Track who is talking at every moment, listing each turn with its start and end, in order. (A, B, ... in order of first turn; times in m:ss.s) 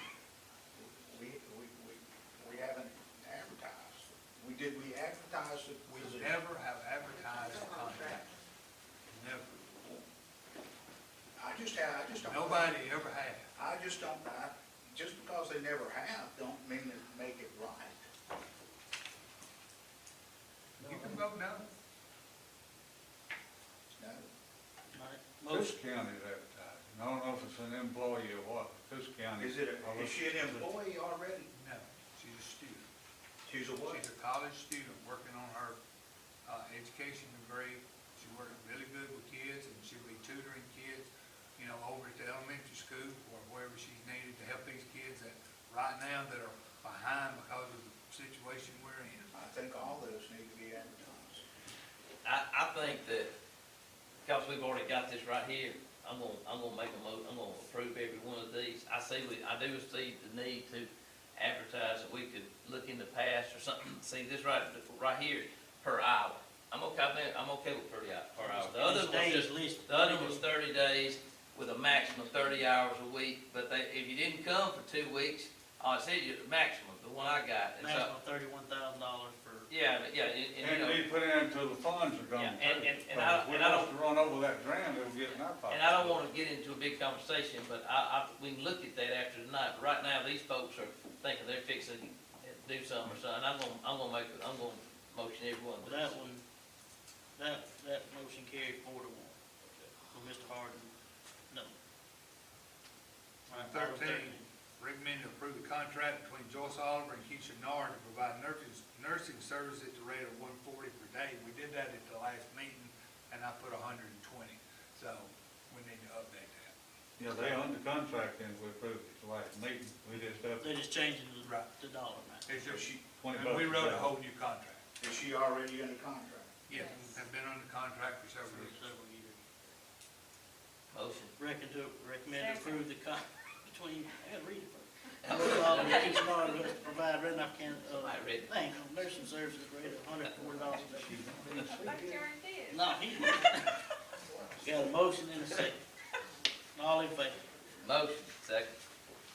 0:00.7-0:06.4 A
0:05.9-0:08.3 B
0:07.4-0:07.7 C
0:09.1-0:09.6 B
0:11.4-0:12.8 A
0:12.2-0:13.5 B
0:13.6-0:18.0 A
0:20.8-0:21.7 B
0:24.0-0:24.3 A
0:24.9-0:25.8 D
0:25.5-0:30.7 E
0:29.4-0:31.5 A
0:31.5-0:32.8 B
0:33.4-0:34.0 A
0:33.8-0:35.8 B
0:36.4-0:49.3 B
0:49.3-0:51.4 A
0:52.2-0:53.3 F
0:54.2-1:18.1 F
1:08.4-1:10.4 D
1:17.8-1:19.7 D
1:19.7-1:21.0 F
1:20.6-1:26.2 E
1:22.3-1:23.9 F
1:25.3-1:36.1 F
1:35.8-1:36.4 D
1:37.4-1:40.9 D
1:41.5-1:41.7 D
1:43.5-1:44.5 D
1:43.5-1:56.7 B
1:57.2-2:00.6 E
2:00.6-2:02.5 D
2:01.4-2:01.7 B
2:02.4-2:04.8 B
2:02.6-2:03.1 A
2:03.2-2:04.1 E
2:05.0-2:06.6 A
2:06.7-2:08.8 B
2:08.5-2:09.4 D
2:10.9-2:11.3 F
2:11.4-2:21.3 D
2:12.3-2:12.8 C
2:15.2-2:16.2 F
2:18.0-2:18.5 F
2:20.9-2:22.3 E
2:21.6-2:22.8 C
2:22.7-2:23.8 D
2:24.2-2:24.8 A
2:24.6-2:25.8 D
2:26.7-2:27.4 D
2:27.8-2:28.7 F